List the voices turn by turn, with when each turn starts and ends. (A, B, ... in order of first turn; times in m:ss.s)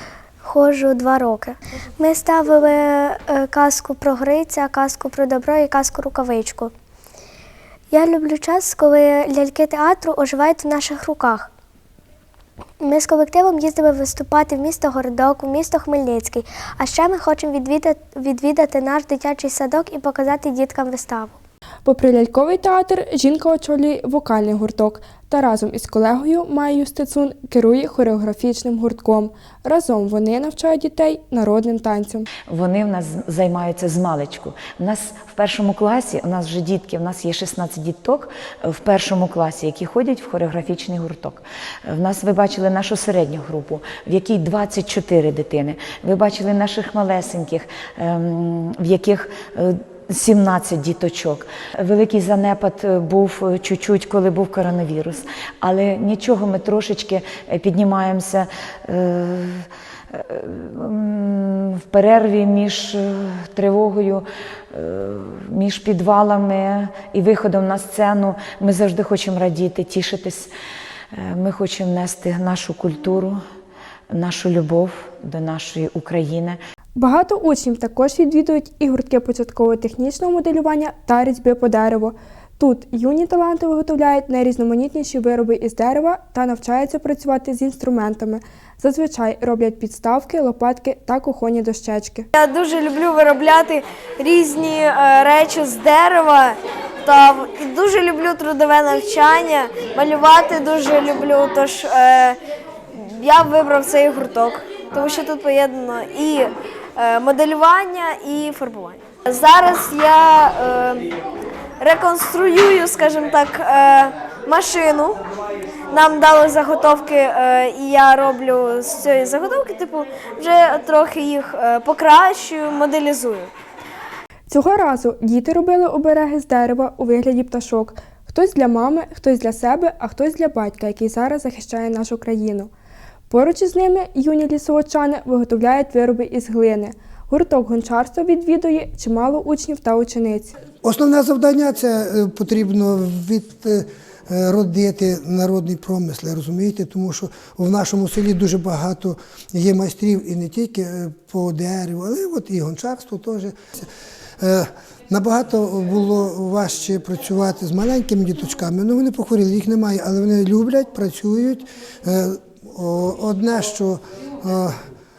0:00.4-0:06.7 A
0:07.9-0:11.5 A
0:12.8-0:21.4 A
0:21.9-0:32.3 B
0:32.5-1:10.5 C
1:11.1-1:13.4 C
1:14.1-1:16.6 C
1:17.0-1:32.3 B
1:32.4-1:42.4 D
1:43.2-1:51.0 D
1:51.8-1:55.2 D
1:55.9-2:03.5 D
2:04.5-2:12.7 B
2:13.3-2:20.6 B
2:20.8-2:33.9 E
2:34.4-2:44.8 E